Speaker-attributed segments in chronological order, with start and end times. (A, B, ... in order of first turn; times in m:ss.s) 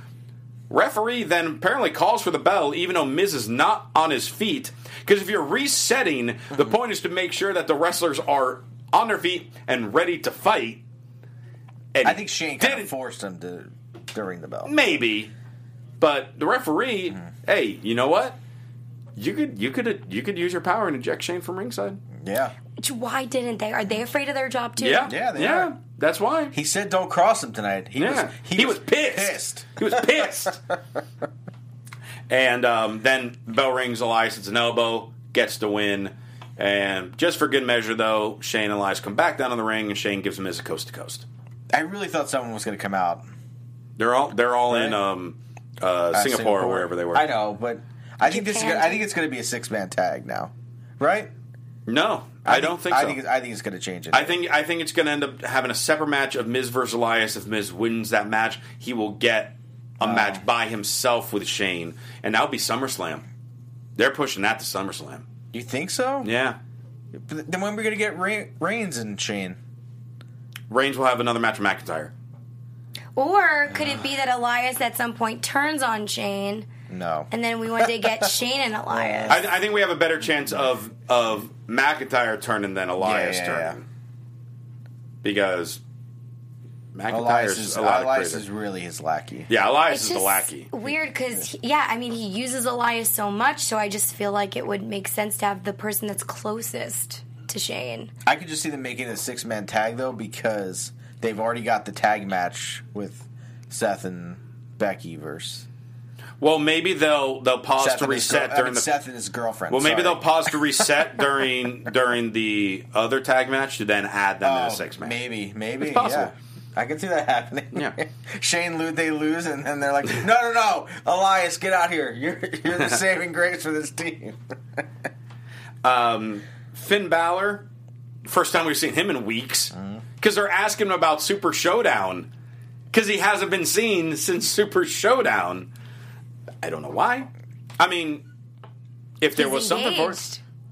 0:00.7-0:10.8 A
0:11.9-0:12.9 A
0:12.0-0:14.8 B
0:14.7-0:15.3 A
0:16.0-0:18.4 A
0:19.2-0:22.0 A
0:22.1-0:22.6 B
0:22.8-0:25.1 C
0:24.8-0:26.5 A
0:25.0-0:25.7 B
0:26.5-0:30.6 B
0:28.0-0:30.6 A
0:32.3-0:41.3 A
0:41.7-0:43.3 B
0:44.0-0:47.3 A
0:44.7-0:45.0 B
0:46.1-0:51.3 B
0:48.2-0:49.0 C
0:51.9-0:53.2 A
0:52.5-0:54.4 B
0:54.1-1:03.2 A
1:00.0-1:00.4 B
1:04.0-1:05.3 A
1:05.5-1:06.3 B
1:06.2-1:06.6 A
1:07.2-1:09.6 B
1:10.7-1:12.1 A
1:13.2-1:16.7 C
1:16.9-1:18.3 B
1:17.3-1:19.4 C
1:18.9-1:19.4 B
1:19.3-1:23.8 A
1:23.0-1:23.8 B
1:25.2-1:25.8 A
1:26.9-1:28.4 A
1:27.1-1:29.5 B
1:29.5-1:30.7 A
1:29.9-1:38.1 C
1:38.3-1:45.7 B
1:46.4-1:48.9 A
1:47.8-1:50.9 B
1:49.7-1:55.2 A
1:54.4-2:04.8 B
1:55.8-1:56.3 A
2:05.8-2:07.7 A
2:08.2-2:12.3 A
2:12.9-2:15.7 A
2:16.6-2:17.3 A
2:17.8-2:18.2 A
2:19.2-2:20.2 A
2:19.4-2:20.4 C